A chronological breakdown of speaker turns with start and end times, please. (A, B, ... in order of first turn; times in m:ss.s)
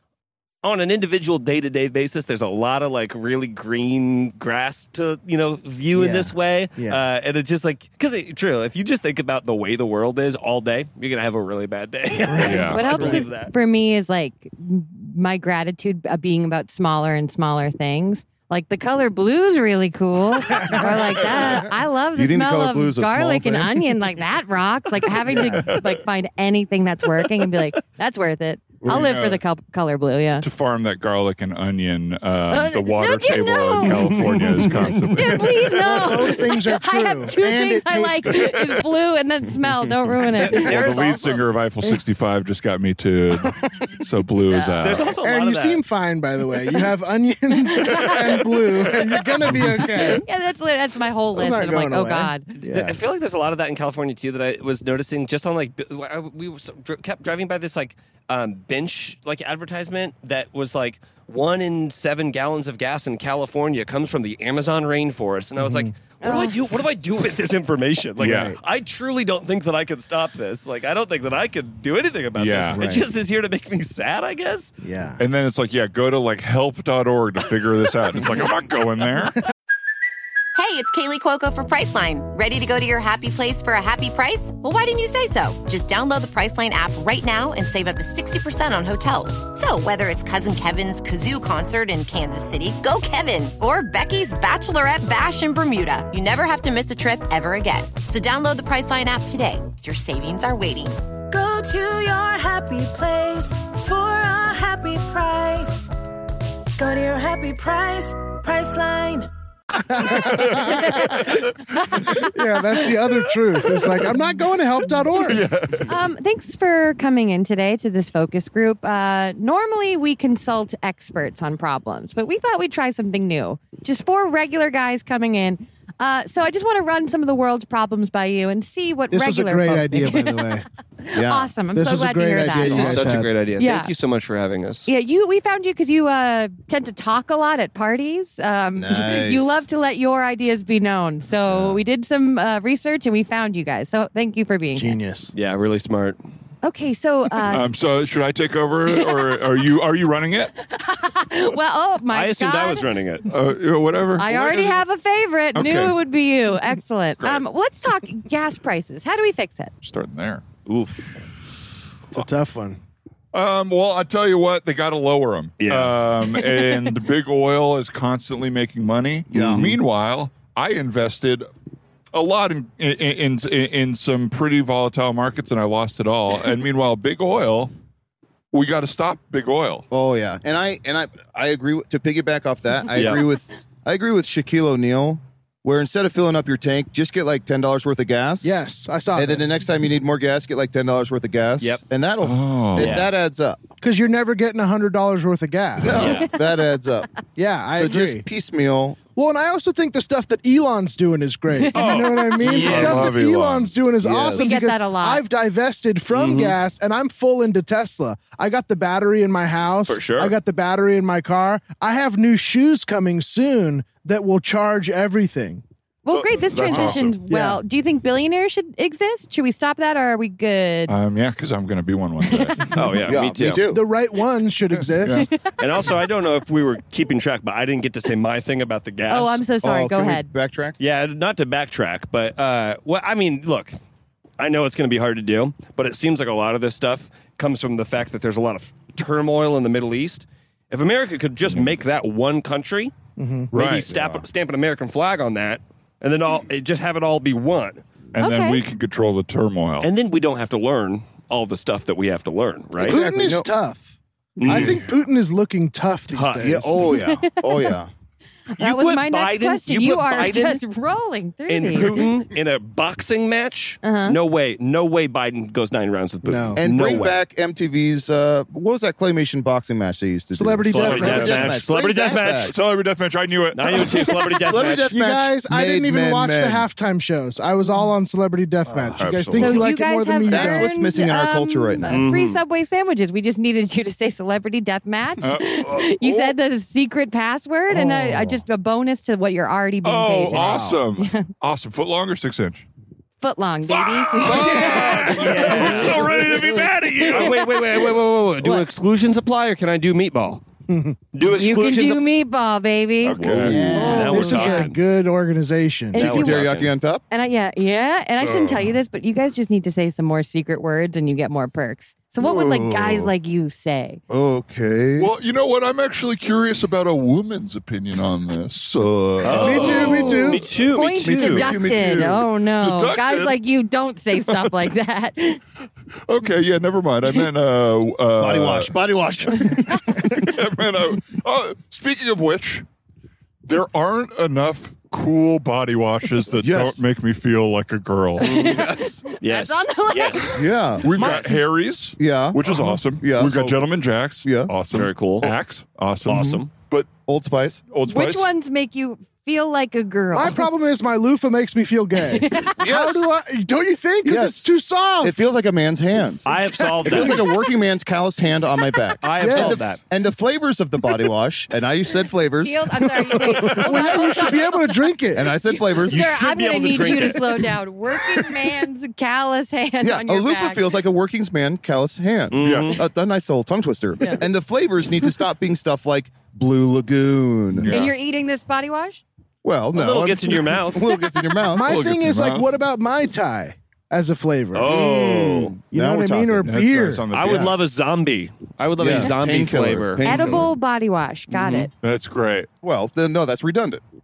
0:00.6-0:13.5 A
0:05.9-0:07.0 B
0:12.3-0:13.2 B
0:12.4-0:13.0 C
0:12.7-0:30.4 D
0:22.1-0:23.9 E
0:25.3-0:25.9 C
0:28.8-0:29.4 C
0:30.4-0:35.8 C
0:32.5-0:41.3 D
0:34.1-0:35.1 A
0:35.7-0:38.6 B
0:40.4-0:45.1 C
0:40.8-0:41.1 A
0:44.5-0:44.9 D
0:44.8-0:45.8 A
0:45.2-0:50.2 B
0:47.7-0:48.4 D
0:50.1-0:52.5 D
0:51.3-0:53.0 B
0:52.6-1:14.7 A
1:05.6-1:05.9 B
1:06.2-1:06.6 D
1:08.2-1:08.6 C
1:08.2-1:08.6 B
1:12.3-1:12.9 C
1:12.7-1:13.0 B
1:14.8-1:15.2 B
1:15.2-1:19.4 C
1:20.5-1:41.0 F
1:41.3-1:45.9 G
1:46.8-1:49.3 G
1:49.8-1:51.1 B
1:50.2-1:52.0 C
1:52.1-1:55.4 B
1:55.2-1:55.9 C
1:55.9-2:13.9 D
2:09.1-2:10.6 B
2:11.1-2:11.5 E
2:11.7-2:13.3 B
2:12.5-2:14.9 A
2:14.8-2:25.0 D
2:18.7-2:19.7 E
2:21.5-2:21.8 C
2:24.7-2:25.3 B
2:25.3-2:26.2 A
2:26.6-2:27.7 D
2:27.5-2:30.5 C
2:28.9-2:29.4 D
2:30.7-2:32.8 D
2:32.1-2:33.3 A
2:33.3-2:34.8 C
2:34.2-2:39.7 D
2:35.5-2:36.0 C
2:39.8-2:40.4 C
2:40.6-2:41.2 A
2:42.1-2:42.8 B
2:43.3-2:51.5 C
2:45.6-2:46.0 A
2:49.3-2:49.7 E
2:49.3-2:49.7 A
2:52.1-2:57.7 C
2:58.5-2:59.8 C
2:59.9-3:13.6 E
3:02.9-3:03.2 A
3:08.4-3:09.6 B
3:11.6-3:11.8 A
3:12.2-3:13.0 C
3:12.8-3:13.1 A
3:13.8-3:16.0 B
3:15.8-3:17.1 E
3:15.9-3:16.3 A
3:17.4-3:18.2 B
3:17.7-3:19.0 E
3:19.1-3:35.6 B
3:21.5-3:22.4 D
3:21.7-3:23.1 A
3:22.4-3:23.7 C
3:24.0-3:24.5 E
3:24.4-3:25.2 D
3:26.1-3:26.6 A
3:29.9-3:30.3 A
3:36.0-3:40.9 D
3:36.1-3:37.2 C
3:37.3-3:37.6 B
3:40.9-3:43.1 C
3:42.2-3:42.7 D
3:42.7-3:43.6 A
3:43.0-3:43.8 E
3:43.6-3:45.3 B
3:45.0-3:45.3 C
3:45.6-3:49.4 A
3:49.1-3:50.3 D
3:49.6-3:50.8 E
3:50.8-3:53.7 A
3:54.4-4:02.9 A
4:03.2-4:03.5 B
4:03.5-4:03.9 C
4:03.5-4:07.8 A
4:03.6-4:04.2 E
4:08.1-4:09.9 C
4:08.2-4:08.6 D
4:09.8-4:13.0 A
4:12.8-4:13.5 E
4:12.8-4:16.8 B
4:14.4-4:14.8 A
4:14.5-4:14.8 C
4:16.1-4:16.6 A
4:16.4-4:17.9 E
4:16.9-4:17.7 D
4:18.5-4:22.1 D
4:18.6-4:20.6 A
4:21.5-4:27.2 A
4:23.8-4:24.2 D
4:26.2-4:27.0 B
4:26.6-4:32.5 E
4:30.3-4:31.5 B
4:30.7-4:32.5 A
4:30.8-4:31.6 C
4:32.4-4:34.2 C
4:33.5-4:34.9 A
4:34.4-4:36.7 E
4:34.7-4:40.7 B
4:38.7-4:39.7 C
4:39.3-4:51.3 D
4:40.3-4:42.0 E
4:41.9-4:42.4 A
4:45.2-4:46.4 C
4:47.7-4:48.4 B
4:49.8-4:52.6 C
4:50.3-4:50.8 B
4:53.2-4:58.7 D
4:53.7-4:57.5 C
4:54.2-5:00.4 A
5:00.7-5:01.0 B
5:01.1-5:02.0 A
5:01.2-5:04.7 D
5:03.0-5:03.9 C
5:03.1-5:04.8 A
5:03.4-5:06.0 B
5:05.9-5:06.5 D
5:05.9-5:06.7 A
5:06.0-5:07.0 E
5:07.1-5:14.0 D
5:08.2-5:08.6 C
5:12.2-5:13.1 E
5:14.1-5:15.1 E
5:15.0-5:20.2 C
5:19.2-5:21.6 A
5:19.4-5:20.5 B
5:19.7-5:25.4 D
5:21.0-5:22.2 E
5:22.5-5:23.4 C
5:24.2-5:24.6 C
5:26.1-5:28.7 C
5:28.2-5:30.0 E
5:29.8-5:32.6 C
5:33.4-5:38.3 C
5:36.4-5:36.8 E
5:38.2-5:41.4 D
5:38.2-5:38.7 A
5:38.3-5:39.0 E
5:39.2-5:41.3 A
5:40.3-5:41.2 E
5:40.8-5:46.9 C
5:42.0-5:43.4 E
5:43.2-5:43.6 A
5:44.2-5:44.5 E
5:44.7-5:45.3 A
5:46.0-5:46.5 A
5:46.1-5:46.4 E
5:47.0-5:47.6 E
5:47.7-5:48.3 C
5:47.9-5:50.4 D
5:50.1-5:55.2 B
5:52.1-5:52.6 D
5:52.6-5:53.1 E
5:54.0-6:03.6 E
5:56.2-5:57.2 A
5:56.7-5:57.2 B
5:59.0-5:59.8 A
5:59.2-5:59.6 B
6:02.4-6:04.8 D
6:03.0-6:05.3 B
6:05.1-6:06.2 E
6:05.5-6:10.7 D
6:05.8-6:07.5 A
6:09.8-6:17.7 E
6:12.3-6:12.8 A
6:12.4-6:12.8 C
6:17.5-6:17.9 C
6:17.7-6:19.0 D
6:19.4-6:21.8 E
6:19.7-6:20.9 A
6:21.5-6:27.0 B
6:21.6-6:22.5 C
6:24.5-6:25.5 A
6:24.6-6:26.5 E
6:26.4-6:27.5 C
6:27.1-6:30.4 A
6:27.2-6:27.5 E
6:28.8-6:30.5 E
6:30.0-6:31.7 D
6:31.8-6:32.5 C
6:32.6-6:33.8 E